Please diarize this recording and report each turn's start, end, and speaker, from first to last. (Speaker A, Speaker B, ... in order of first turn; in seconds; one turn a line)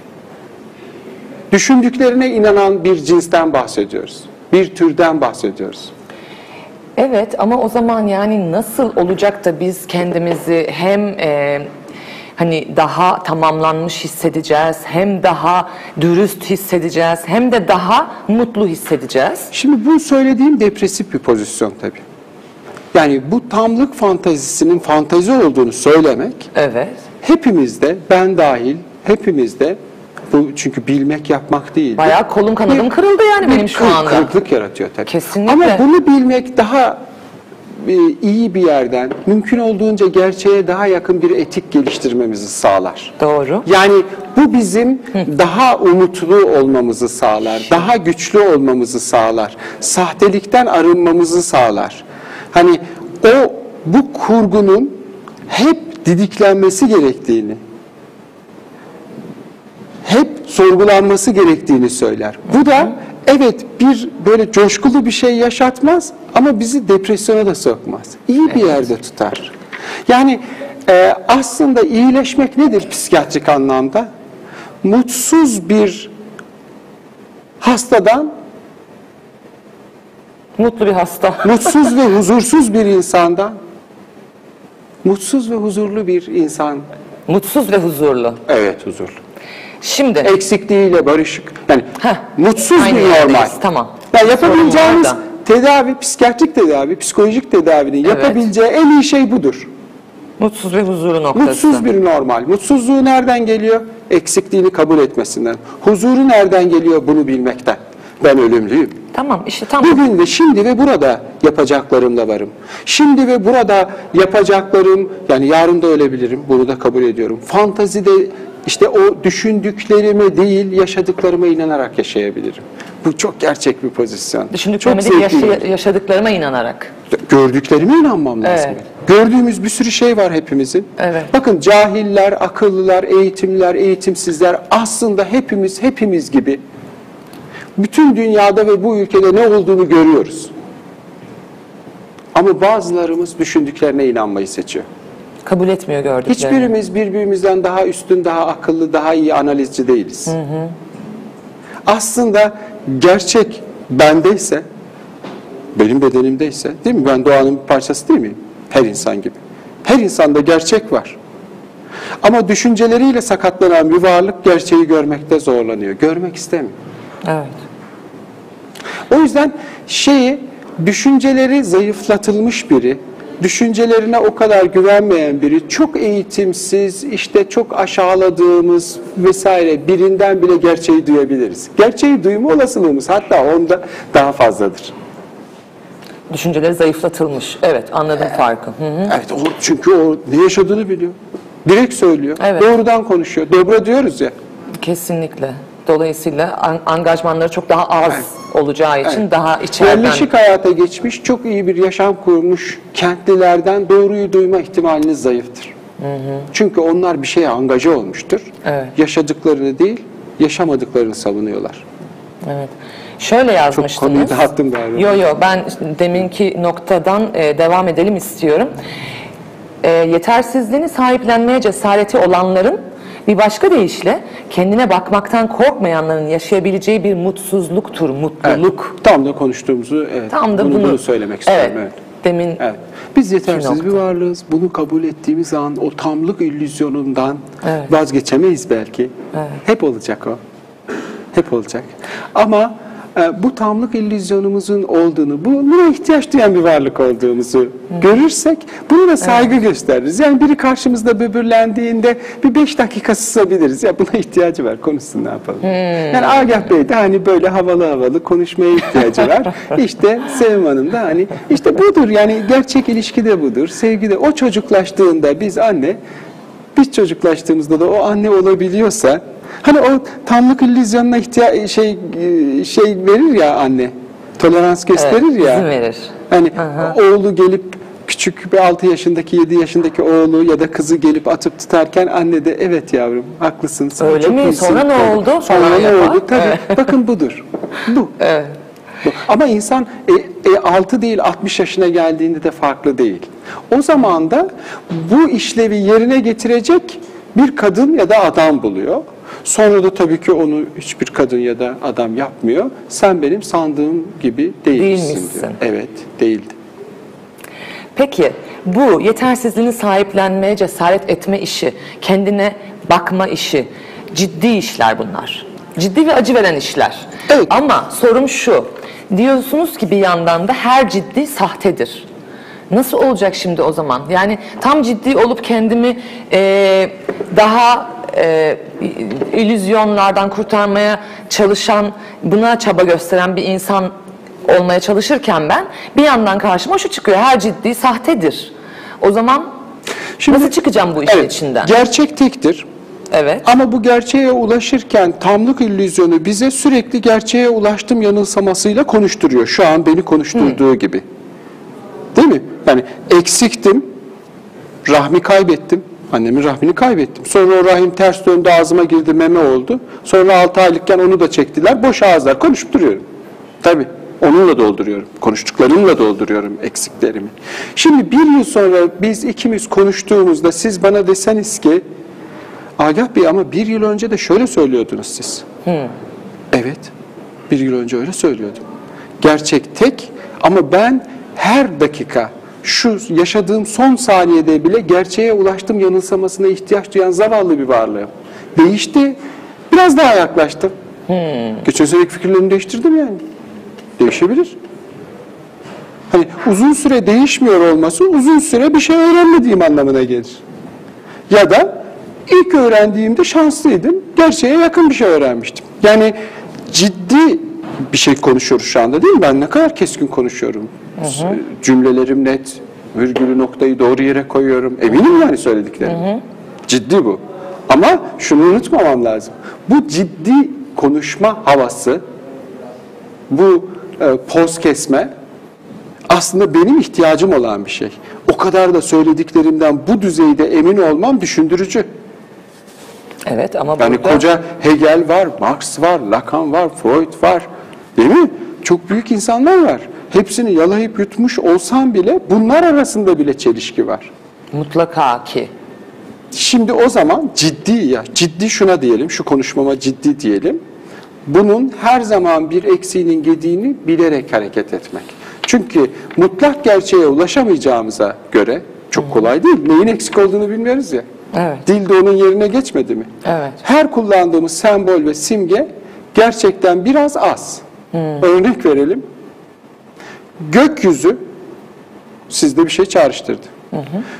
Speaker A: 1.5-5.9
Speaker B: 7.0-11.7
Speaker B: 12.4-19.5
Speaker A: 19.5-22.0
Speaker A: 22.9-26.5
Speaker B: 26.5-27.0
Speaker A: 27.2-29.8
Speaker A: 30.3-32.1
Speaker B: 32.0-34.3
Speaker A: 33.4-37.0
Speaker B: 35.1-35.8
Speaker A: 37.8-43.1
Speaker B: 43.2-43.7
Speaker A: 43.6-55.0
Speaker A: 55.5-57.6
Speaker A: 60.0-69.5
Speaker A: 70.1-74.1
Speaker A: 74.8-76.1
Speaker A: 77.6-78.3
Speaker B: 80.6-81.9
Speaker A: 81.4-83.6
Speaker A: 85.0-86.8
Speaker B: 87.3-88.4
Speaker A: 88.5-89.2
Speaker B: 89.8-90.3
Speaker A: 90.2-93.6
Speaker B: 92.8-95.2
Speaker A: 94.1-99.7
Speaker B: 98.1-98.4
Speaker B: 100.4-101.8
Speaker A: 101.3-109.0
Speaker B: 109.1-110.0
Speaker A: 109.8-125.6
Speaker B: 124.5-126.9
Speaker A: 127.1-136.6
Speaker B: 128.4-128.8
Speaker B: 131.0-131.3
Speaker A: 137.8-140.5
Speaker A: 142.3-144.9
Speaker B: 145.5-146.7
Speaker A: 146.3-150.3
Speaker B: 150.3-150.7
Speaker A: 151.9-154.7
Speaker A: 155.8-161.2
Speaker A: 162.2-166.8
Speaker B: 167.2-167.6
Speaker A: 169.1-184.9
Speaker B: 186.3-189.2
Speaker A: 189.1-194.3
Speaker B: 192.4-192.7
Speaker B: 194.8-200.3
Speaker A: 199.8-205.7
Speaker B: 206.0-206.5
Speaker A: 206.5-211.8
Speaker B: 208.7-208.9
Speaker B: 212.4-218.7
Speaker A: 213.7-215.2
Speaker B: 219.8-228.6
Speaker A: 228.4-232.0
Speaker B: 230.3-232.6
Speaker A: 232.6-240.4
Speaker B: 233.5-234.0
Speaker B: 237.6-237.9
Speaker A: 241.3-266.0
Speaker B: 255.6-256.5
Speaker A: 266.8-275.7
Speaker B: 275.0-276.9
Speaker A: 276.3-288.1
Speaker B: 284.0-286.9
Speaker B: 288.2-288.5
Speaker A: 289.0-306.5
Speaker B: 304.8-305.6
Speaker B: 308.0-322.1
Speaker B: 322.7-333.9
Speaker B: 334.4-339.5
Speaker A: 340.2-340.6
Speaker B: 340.3-341.8
Speaker A: 341.1-342.7
Speaker B: 343.1-343.4
Speaker A: 343.4-351.0
Speaker A: 352.1-353.9
Speaker A: 354.9-363.0
Speaker A: 363.6-371.8
Speaker A: 372.8-375.4
Speaker B: 375.7-375.9
Speaker A: 376.5-376.9
Speaker A: 377.5-378.6
Speaker A: 379.2-389.2
Speaker A: 389.7-390.7
Speaker B: 391.1-391.6
Speaker A: 391.6-393.2
Speaker A: 394.0-394.6
Speaker A: 396.1-400.4
Speaker A: 401.3-401.7
Speaker A: 402.3-406.1
Speaker A: 406.7-416.1
Speaker B: 411.0-411.4
Speaker B: 415.9-416.2
Speaker A: 416.7-422.0
Speaker A: 423.3-425.1
Speaker A: 426.1-431.9
Speaker B: 433.3-434.2
Speaker A: 433.8-444.1
Speaker B: 444.5-445.5
Speaker A: 446.3-450.6
Speaker A: 451.3-461.1
Speaker B: 461.3-461.6
Speaker A: 461.7-463.1
Speaker B: 463.2-463.6
Speaker A: 463.6-467.6
Speaker B: 467.9-468.2
Speaker A: 468.2-469.0
Speaker A: 470.4-471.2
Speaker A: 472.3-473.5
Speaker B: 473.7-474.0